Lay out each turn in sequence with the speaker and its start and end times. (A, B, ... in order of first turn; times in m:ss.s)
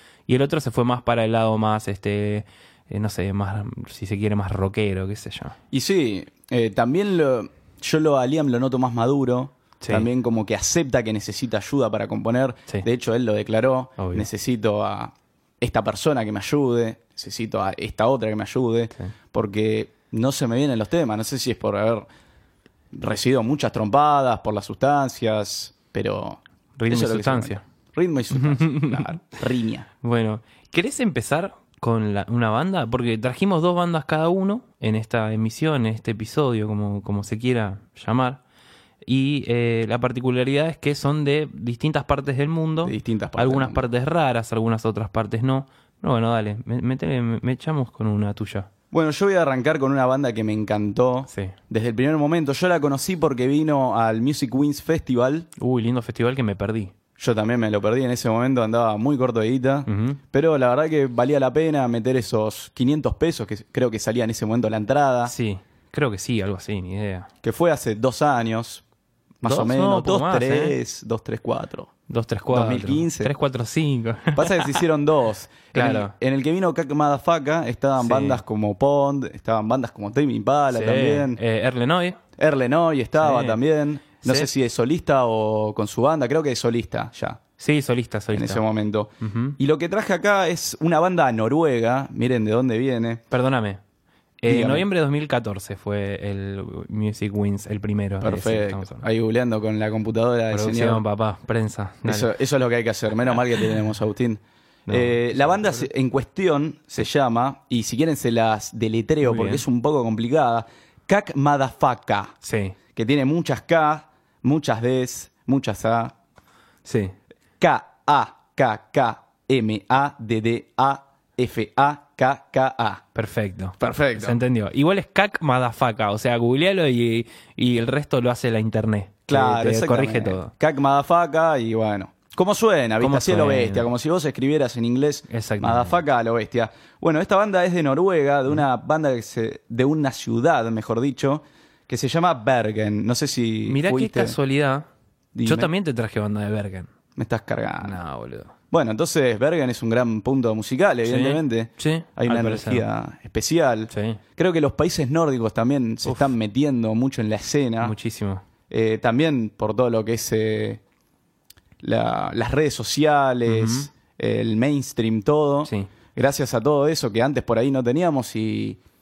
0:00.3-0:05.6 A
0:05.7-0:22.1 B
0:09.8-0:10.1 A
0:14.0-0:14.3 A
0:22.9-0:29.9 B
0:26.8-0:27.6 A
0:28.3-0:29.3 A
0:30.0-0:38.4 A
0:39.0-0:48.7 A
0:42.8-0:43.8 B
0:48.9-0:55.5 B
0:55.6-0:56.9 A
0:57.2-1:05.3 B
0:59.9-1:00.2 A
1:05.3-1:07.3 A
1:07.4-1:08.8 B
1:09.4-1:11.9 B
1:09.4-1:10.8 A
1:12.1-1:14.7 A
1:12.5-1:13.3 B
1:14.4-1:21.4 B
1:15.7-1:16.1 A
1:18.0-1:18.4 A
1:20.7-1:22.2 A
1:22.4-1:27.4 B
1:23.2-1:23.6 A
1:24.2-1:24.5 A
1:27.6-1:28.6 A
1:28.3-1:33.2 B
1:29.2-1:29.6 A
1:33.3-1:33.8 A
1:34.4-1:39.1 A
1:34.5-1:34.9 B
1:38.2-1:41.0 B
1:40.5-1:42.3 A
1:42.0-1:52.4 B
1:44.9-1:45.9 A
1:49.2-1:49.6 A
1:52.4-1:52.8 A
1:53.0-1:56.1 B
1:56.8-1:57.1 A
1:57.6-2:03.0 B
2:03.2-2:10.5 A
2:03.8-2:04.4 B
2:09.3-2:24.4 B
2:13.0-2:13.9 A
2:15.3-2:16.0 A
2:23.7-2:24.9 A
2:25.4-2:25.7 B
2:25.4-2:26.9 A
2:27.2-2:28.0 B
2:27.8-2:28.5 A
2:28.7-2:38.0 B
2:31.1-2:32.9 A
2:33.9-2:34.2 A
2:37.8-2:38.4 A
2:38.7-2:40.8 B
2:41.8-2:48.8 B
2:43.5-2:43.9 A